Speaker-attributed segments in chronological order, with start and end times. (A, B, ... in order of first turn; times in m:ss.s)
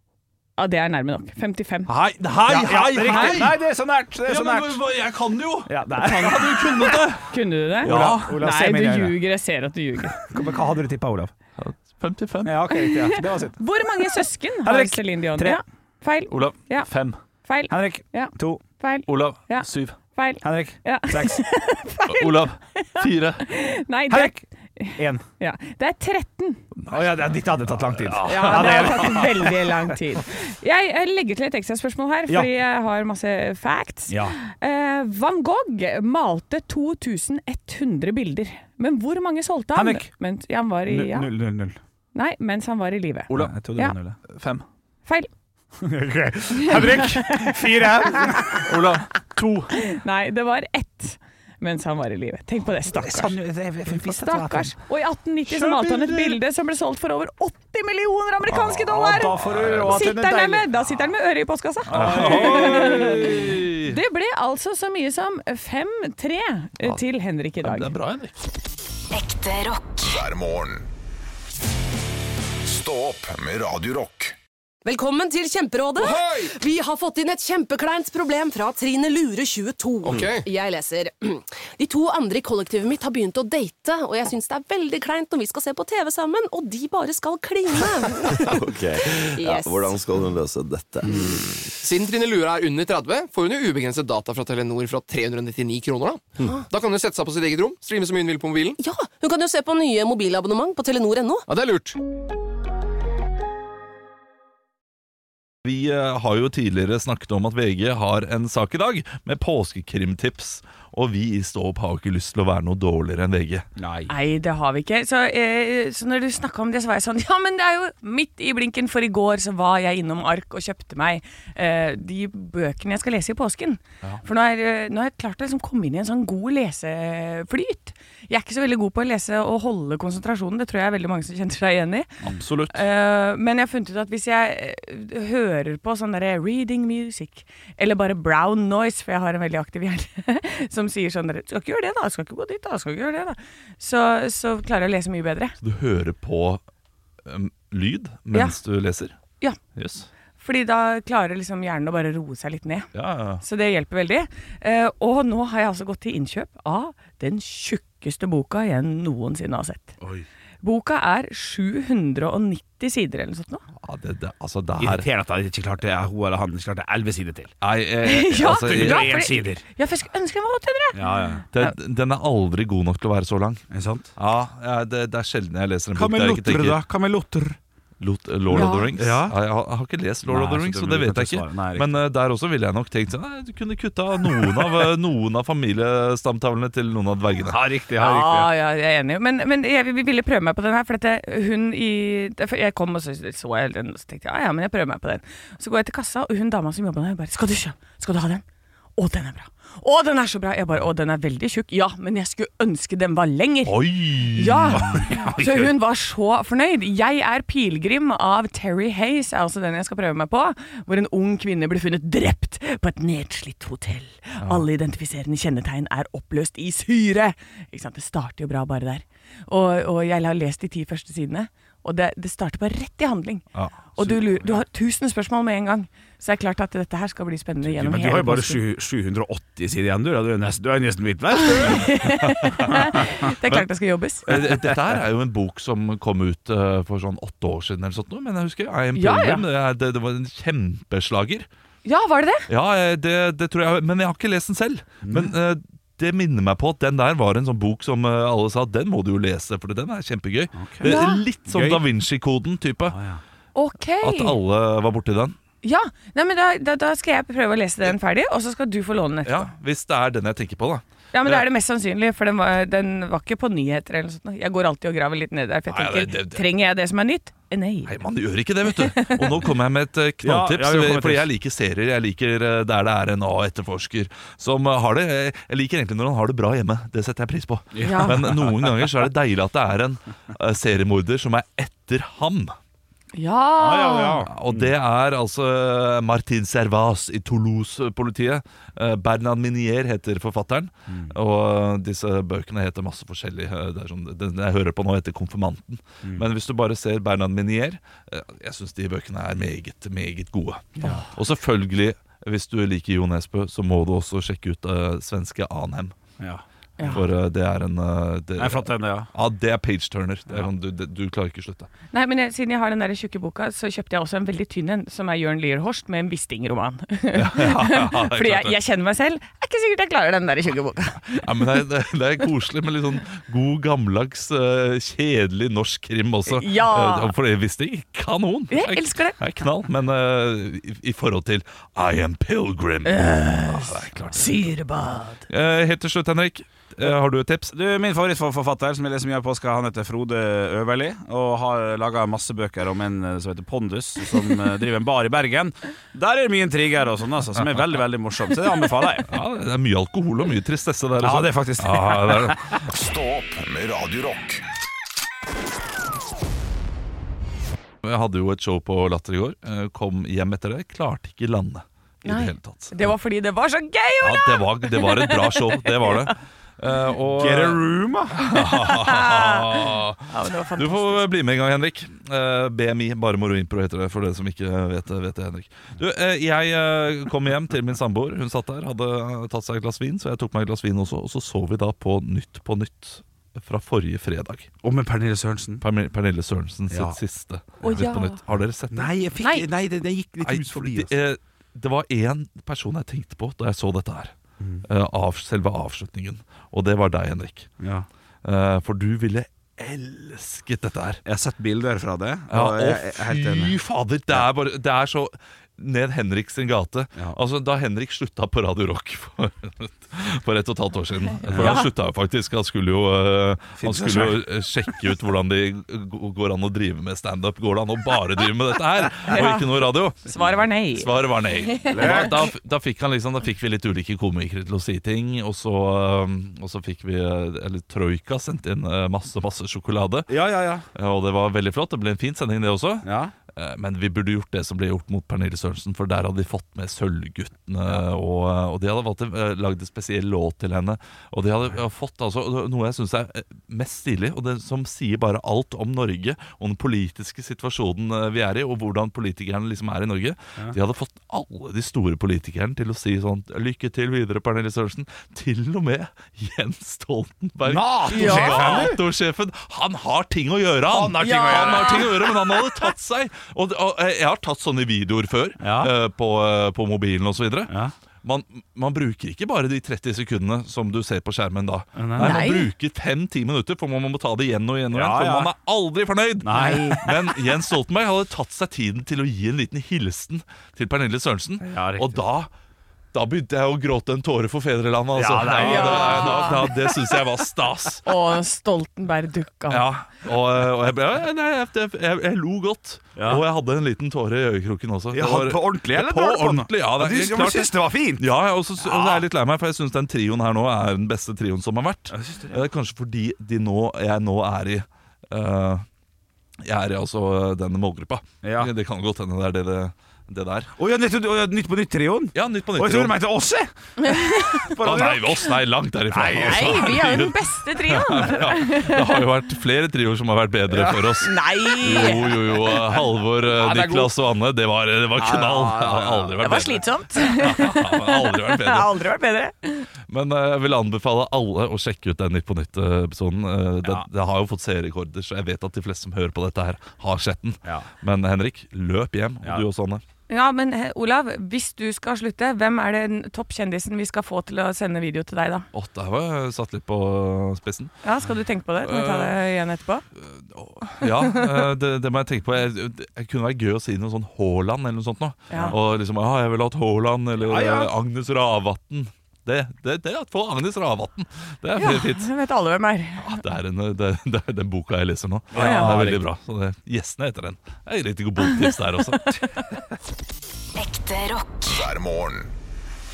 0:00.6-0:01.9 A
0:01.8-0:03.6 B
0:02.4-0:04.8 C
0:04.2-0:08.3 B
0:05.6-0:07.0 C
0:07.3-0:10.2 A
0:07.8-0:09.2 C
0:10.2-0:11.3 C
0:11.6-0:12.6 B
0:12.4-0:13.6 C
0:12.7-0:16.9 A
0:14.6-0:15.6 C
0:16.3-0:17.2 B
0:17.4-0:26.6 A
0:17.7-0:18.6 C
0:19.1-0:20.0 B
0:20.4-0:21.4 C
0:22.1-0:23.4 B
0:24.1-0:24.4 C
0:25.0-0:25.2 C
0:26.8-0:29.5 B
0:26.9-0:29.7 C
0:28.3-0:41.3 A
0:34.1-0:34.4 C
0:39.7-0:40.1 C
0:40.8-0:41.8 C
0:42.1-0:44.0 A
0:43.3-0:43.5 B
0:43.3-0:44.2 C
0:44.3-0:44.6 B
0:45.8-0:48.6 C
0:46.6-0:48.6 A
0:48.6-0:49.8 B
0:49.7-0:53.3 A
0:52.9-0:54.7 C
0:53.9-1:07.9 A
0:55.5-0:56.2 B
0:55.5-0:56.3 C
0:58.5-1:00.0 B
0:58.6-1:00.7 C
1:01.8-1:03.4 C
1:01.9-1:04.0 B
1:07.6-1:08.4 B
1:09.1-1:10.0 D
1:10.0-1:10.9 E
1:12.6-1:14.4 E
1:14.8-1:28.6 D
1:16.0-1:16.5 F
1:20.0-1:20.5 F
1:28.4-1:31.7 G
1:29.2-1:29.9 D
1:31.8-1:38.8 F
1:38.8-1:41.4 D
1:41.5-1:42.0 F
1:45.6-1:53.6 B
1:53.8-1:54.1 C
1:54.1-2:25.6 A
2:12.3-2:12.8 B
2:25.6-2:26.6 B
2:27.2-2:29.1 B
2:29.8-2:30.1 B
2:30.4-2:32.9 A
2:32.9-2:33.4 B
2:33.4-2:39.9 A
2:40.6-2:43.6 A
2:43.8-2:45.1 B
2:44.8-2:47.5 C
2:47.6-2:49.2 B
2:48.0-2:51.7 A
2:48.6-2:49.6 C
2:50.9-2:51.4 C
2:51.5-2:53.6 B
2:53.7-2:54.1 C
2:54.2-2:56.8 B
2:55.9-2:57.6 C
2:58.0-3:07.6 B
2:58.5-2:59.4 C
2:58.5-2:58.9 A
3:00.2-3:01.9 C
3:04.3-3:04.7 C
3:07.4-3:08.5 C
3:08.0-3:18.4 A
3:19.0-3:43.4 A
3:23.6-3:25.1 B
3:24.7-3:25.7 C
3:34.4-3:34.6 B
3:43.5-3:44.5 B
3:44.0-3:48.6 A
3:47.6-3:53.2 C
3:51.5-3:54.2 A
3:54.2-4:01.5 B
3:54.3-3:55.0 C
3:58.9-3:59.4 A
4:01.8-4:02.5 A
4:02.5-4:13.0 B
4:05.0-4:05.3 C
4:10.5-4:10.9 C
4:10.8-4:11.2 A
4:11.5-4:11.8 C
4:12.9-4:13.2 C
4:13.5-4:14.4 A
4:14.0-4:15.4 B
4:15.6-4:19.5 A
4:19.2-4:21.4 B
4:21.1-4:27.9 A
4:25.7-4:26.4 B
4:27.8-4:42.5 B
4:28.7-4:29.5 A
4:30.2-4:31.3 C
4:37.7-4:38.9 C
4:37.8-4:38.2 A
4:43.1-4:44.2 A
4:43.6-4:44.7 C
4:44.3-5:05.9 B
4:50.9-4:51.1 C
5:00.8-5:01.0 C
5:06.2-5:07.0 C
5:06.8-5:07.0 A
5:06.8-5:11.7 B
5:08.4-5:09.1 C
5:11.9-5:21.6 A
5:17.1-5:18.6 B
5:21.1-5:34.3 B
5:26.3-5:27.1 A
5:28.5-5:29.2 A
5:32.8-5:35.2 A
5:35.3-5:37.5 B
5:37.5-5:49.1 C
5:49.1-5:52.6 B
5:51.0-5:52.4 C
5:52.6-5:54.4 E
5:57.8-6:02.9 B
6:02.0-6:06.1 A
6:04.0-6:24.5 B
6:07.2-6:08.2 C
6:08.3-6:11.0 A
6:24.6-6:25.6 C
6:25.6-6:28.9 B
6:26.7-6:27.0 C
6:27.6-6:27.9 C
6:27.6-6:28.2 A
6:28.7-6:30.9 C
6:29.2-6:29.5 A
6:30.2-6:34.1 B
6:34.4-6:34.6 C
6:34.6-6:37.5 B
6:37.6-6:37.9 C
6:38.2-6:41.0 B
6:41.0-6:43.6 C
6:42.3-7:10.2 B
6:51.2-6:51.7 C
6:51.3-6:51.7 A
6:53.6-6:54.2 C
6:59.1-6:59.5 A
7:00.1-7:02.3 A
7:01.7-7:02.3 C
7:10.1-7:10.6 C
7:10.7-8:02.3 B
7:12.8-7:13.1 C
7:37.4-7:38.8 C
7:37.9-7:38.7 A
7:40.7-7:42.1 C
7:41.0-7:42.1 A
7:45.4-7:45.7 C
7:47.5-7:47.7 C
7:51.8-7:52.2 C
7:52.0-7:52.5 A
7:54.7-7:55.3 C
7:56.2-7:57.2 C
7:56.3-7:56.9 A
8:01.4-8:02.0 C
8:02.9-8:07.8 B
8:04.9-8:06.6 C
8:05.3-8:06.7 A
8:07.8-8:09.6 A
8:09.5-8:25.6 B
8:13.0-8:13.2 C
8:14.9-8:18.1 C
8:18.6-8:19.0 C
8:21.9-8:22.4 C
8:26.4-8:30.5 B
8:28.2-8:28.5 C
8:30.6-8:33.5 C
8:32.1-8:33.0 B
8:33.8-8:34.5 A
8:34.1-8:35.4 C
8:34.6-8:48.8 B
8:35.9-8:36.8 C
8:36.1-8:39.0 A
8:40.5-8:40.8 C
8:41.0-8:42.6 A
8:43.2-8:43.9 C
8:44.9-8:46.2 C
8:46.2-8:49.7 A
8:49.9-8:59.8 B
9:00.1-9:05.4 A
9:05.5-9:07.7 B
9:07.8-9:09.8 A
9:08.6-9:09.2 B
9:10.0-9:22.1 B
9:10.8-9:11.4 A
9:15.3-9:15.6 A
9:15.3-9:15.6 C
9:17.2-9:17.7 C
9:21.6-9:23.2 A
9:23.0-9:29.2 B
9:25.3-9:26.0 C
9:25.4-9:25.7 A
9:29.0-9:29.4 A
9:30.6-9:31.4 D
9:31.4-9:32.3 E